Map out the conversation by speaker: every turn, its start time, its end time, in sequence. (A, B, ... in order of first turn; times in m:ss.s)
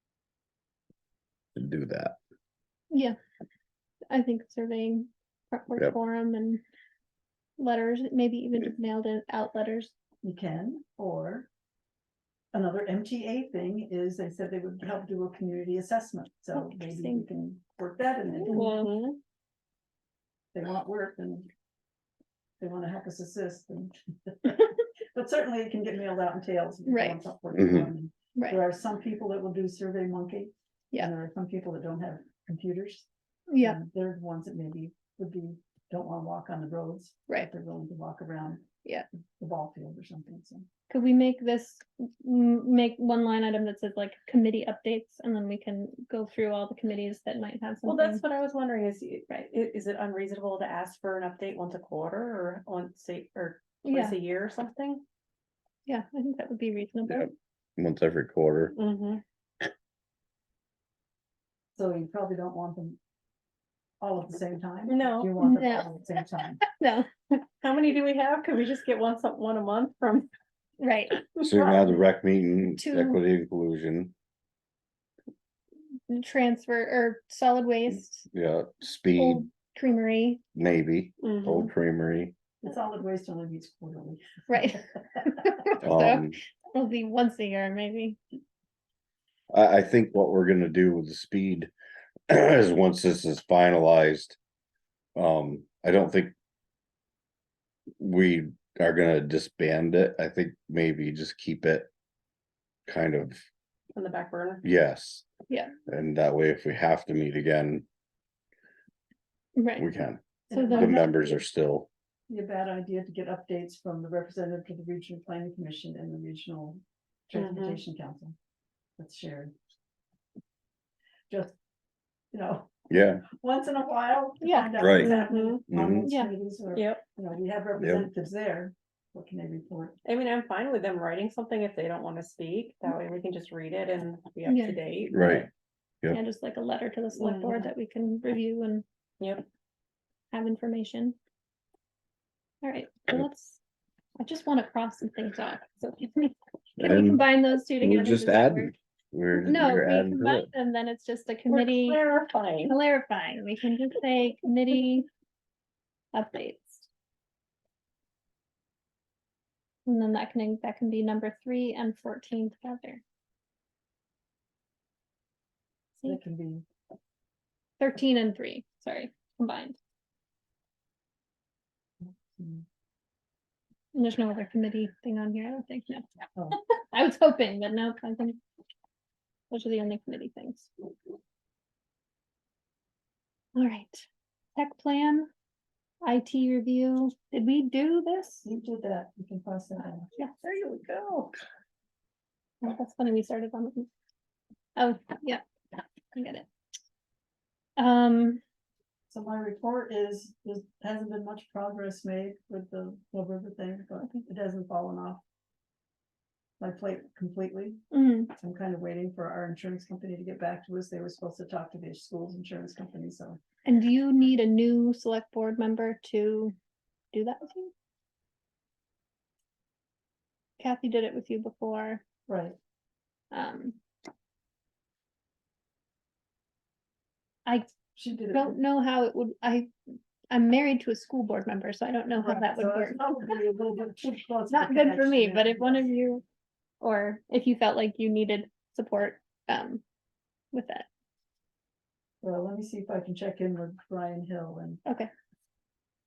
0:01.5-0:02.2 A
0:02.9-0:03.2 B
0:04.1-0:06.6 B
0:07.6-0:09.9 B
0:10.2-0:11.5 C
0:12.5-0:18.8 C
0:16.5-0:17.3 B
0:18.4-0:18.9 B
0:18.5-0:19.2 D
0:20.5-0:21.5 C
0:22.6-0:33.1 C
0:26.9-0:27.2 B
0:27.5-0:27.9 A
0:28.4-0:28.6 B
0:33.5-0:33.8 B
0:33.6-0:38.7 C
0:39.4-0:40.7 C
0:40.9-0:48.2 B
0:47.8-0:55.0 D
0:53.8-0:54.2 B
0:55.8-0:57.3 B
0:57.0-0:58.7 A
0:58.8-0:59.2 D
1:01.8-1:03.0 C
1:04.0-1:06.6 C
1:04.9-1:05.3 D
1:05.4-1:05.9 B
1:06.6-1:07.3 B
1:07.6-1:10.3 D
1:10.8-1:11.2 B
1:11.2-1:11.8 D
1:11.4-1:14.1 A
1:12.8-1:13.2 B
1:16.1-1:18.3 B
1:18.3-1:19.5 A
1:19.2-1:20.4 B
1:20.6-1:22.3 A
1:21.2-1:21.7 D
1:22.6-1:24.8 C
1:24.5-1:28.2 B
1:25.8-1:26.4 A
1:29.5-1:31.7 A
1:32.3-1:34.4 A
1:35.2-1:36.3 A
1:38.0-1:41.9 A
1:42.9-1:43.4 A
1:44.0-1:44.6 D
1:44.6-1:45.3 A
1:45.9-1:47.8 A
1:49.6-1:49.9 B
1:49.8-1:51.9 A
1:50.5-1:51.2 C
1:50.5-1:51.3 B
1:52.3-1:58.3 C
1:57.3-1:57.8 D
1:59.0-1:59.5 C
2:01.3-2:01.6 C
2:02.3-2:10.0 C
2:02.9-2:03.2 A
2:04.4-2:04.7 B
2:04.8-2:05.2 A
2:04.9-2:05.6 D
2:05.7-2:06.1 A
2:06.0-2:06.3 B
2:06.7-2:07.0 D
2:07.8-2:08.1 A
2:10.0-2:15.5 D
2:14.4-2:14.8 B
2:15.1-2:15.5 A
2:16.1-2:18.8 B
2:17.2-2:17.7 D
2:19.2-2:19.5 D
2:20.3-2:21.2 B
2:22.6-2:23.6 B
2:24.2-2:28.7 B
2:26.8-2:27.2 A
2:27.8-2:30.5 A
2:29.4-2:32.0 B
2:31.5-2:32.8 D
2:32.6-2:35.1 B
2:36.1-2:36.9 B
2:39.9-2:43.0 B
2:46.0-2:46.6 C
2:47.8-2:49.8 B
2:52.0-2:52.6 C
2:53.9-2:58.4 B
2:59.5-3:00.7 B
3:03.6-3:04.0 B
3:04.6-3:05.3 B
3:06.0-3:08.5 B
3:08.4-3:10.1 C
3:10.4-3:11.4 D
3:12.6-3:13.9 B
3:14.8-3:15.4 B
3:16.1-3:16.5 B
3:17.8-3:18.4 B
3:19.1-3:25.2 C
3:26.6-3:27.8 C
3:27.9-3:28.3 B
3:28.4-3:33.4 C
3:33.6-3:36.5 B
3:37.1-3:37.7 B
3:40.6-3:42.0 B
3:42.3-3:42.6 C
3:43.3-3:43.8 B
3:47.9-3:48.6 C
3:48.3-3:49.7 B
3:50.3-3:53.0 B
3:52.2-3:55.9 C
3:54.5-3:56.2 B
3:56.8-3:59.8 B
4:00.5-4:00.9 B
4:02.2-4:04.8 C